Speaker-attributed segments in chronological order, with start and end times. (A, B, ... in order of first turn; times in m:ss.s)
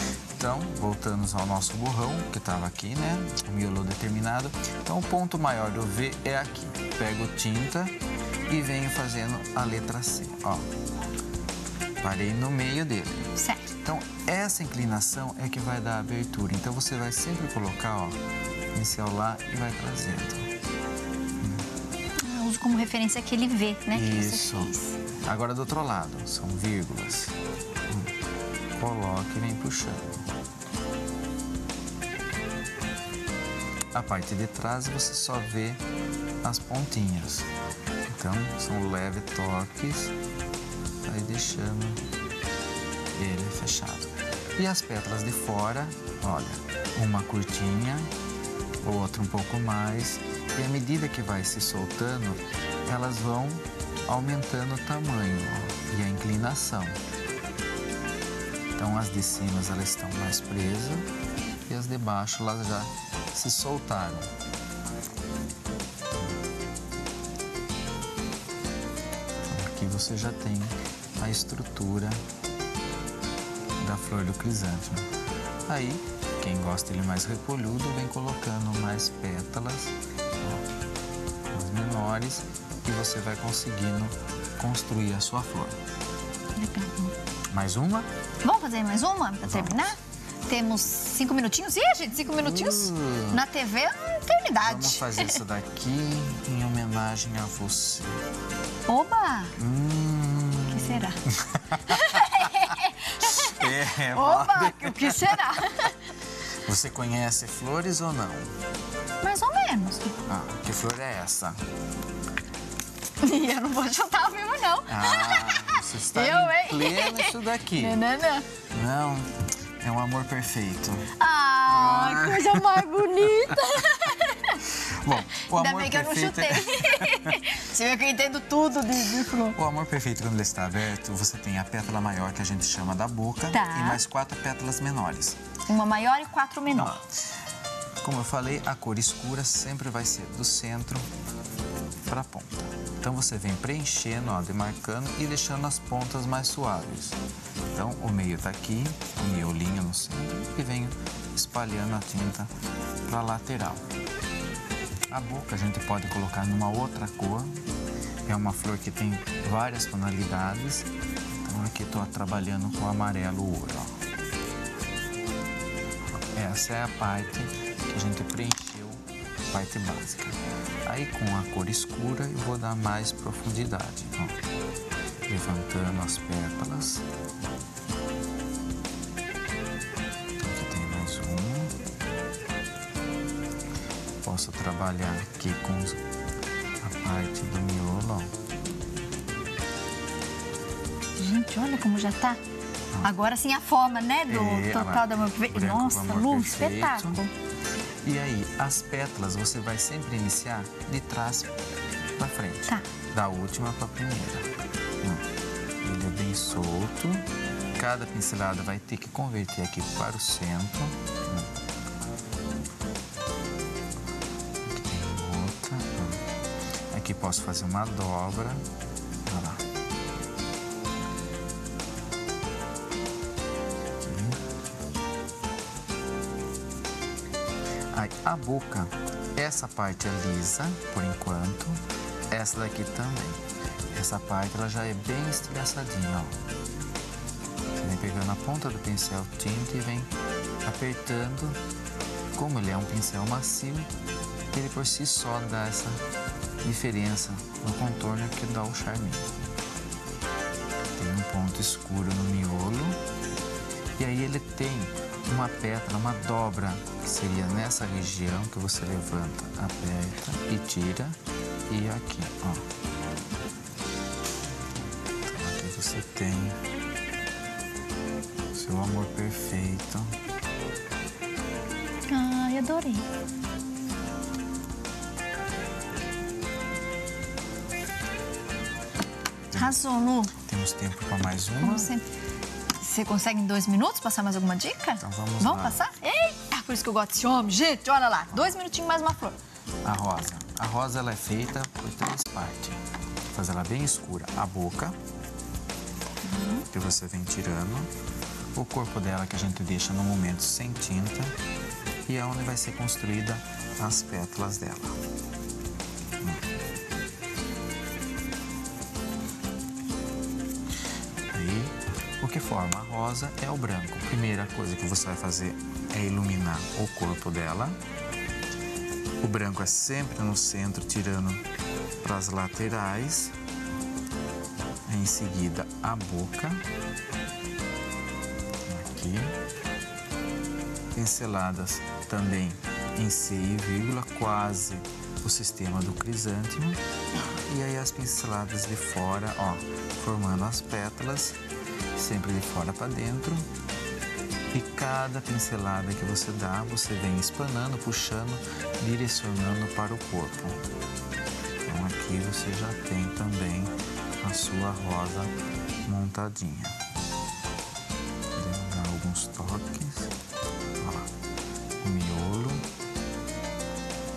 0:00.4-0:07.9 A
0:08.5-0:10.7 A
0:12.0-0:18.2 A
0:13.4-0:13.7 B
0:18.7-0:20.5 A
0:21.4-0:21.6 A
0:22.2-0:24.9 B
0:23.9-0:27.4 A
0:27.9-0:28.1 A
0:28.8-0:30.3 A
0:33.9-0:35.8 A
0:36.4-0:37.5 A
0:38.1-0:40.1 A
0:41.0-0:42.0 A
0:43.1-0:48.1 A
0:48.8-0:57.0 A
0:58.8-1:01.1 A
1:01.7-1:04.3 A
1:09.4-1:12.2 A
1:13.8-1:15.1 A
1:15.7-1:20.6 A
1:21.5-1:25.7 A
1:26.6-1:27.1 B
1:27.5-1:28.1 A
1:28.4-1:30.0 B
1:29.4-1:29.9 A
1:30.5-1:35.4 B
1:32.3-1:33.4 A
1:34.6-1:38.2 A
1:38.9-1:39.6 B
1:39.6-1:45.7 A
1:40.7-1:41.2 B
1:41.8-1:46.0 B
1:46.6-1:48.5 A
1:49.2-1:50.2 B
1:50.3-1:51.6 A
1:53.2-1:58.4 B
1:54.9-1:58.0 A
1:58.7-2:01.1 A
2:01.2-2:04.7 B
2:01.7-2:03.5 A
2:04.8-2:07.4 A
2:05.3-2:09.6 B
2:09.5-2:15.4 A
2:13.5-2:14.0 B
2:15.7-2:17.0 B
2:16.7-2:17.2 A
2:18.0-2:21.0 A
2:22.1-2:27.2 A
2:27.7-2:32.5 A
2:33.0-2:33.8 A
2:35.1-2:37.6 A
2:38.2-2:40.9 A
2:41.4-2:43.9 A
2:46.2-2:54.4 A
2:55.3-2:57.0 A
3:00.4-3:01.8 A
3:04.2-3:06.0 A
3:06.8-3:08.3 A
3:11.2-3:12.4 B
3:13.0-3:17.3 B
3:14.3-3:17.2 A
3:18.0-3:21.5 A
3:22.2-3:24.5 A
3:25.8-3:27.2 A
3:27.8-3:31.5 A
3:34.6-3:36.2 A
3:36.9-3:38.6 A
3:39.2-3:39.6 A
3:44.0-3:44.4 A
3:47.9-3:53.4 A
3:53.9-3:56.4 A
3:57.8-4:00.1 A
4:00.6-4:01.6 A
4:02.3-4:03.9 A
4:04.5-4:06.0 A
4:06.6-4:09.3 A
4:11.0-4:13.0 A
4:14.0-4:22.6 A
4:25.2-4:26.6 A
4:28.5-4:30.1 A
4:32.1-4:33.0 B
4:39.5-4:40.3 B
4:40.3-4:41.9 A
4:41.6-4:42.0 B
4:42.8-4:49.4 B
4:45.0-4:45.8 A
4:49.8-4:52.8 A
4:53.3-4:55.0 A
4:56.2-4:56.6 B
4:56.7-4:57.9 A
4:58.5-5:01.3 A
5:02.1-5:05.0 A
5:11.3-5:17.8 A
5:19.2-5:21.4 A
5:22.0-5:23.3 A
5:24.9-5:26.6 A
5:28.7-5:29.3 A
5:30.9-5:36.8 A
5:37.5-5:41.4 A
5:41.9-5:43.5 A
5:44.5-5:50.6 A
5:51.6-5:55.3 A
5:55.8-5:56.8 A
5:58.3-6:00.1 A
6:00.8-6:01.1 A
6:01.8-6:02.6 A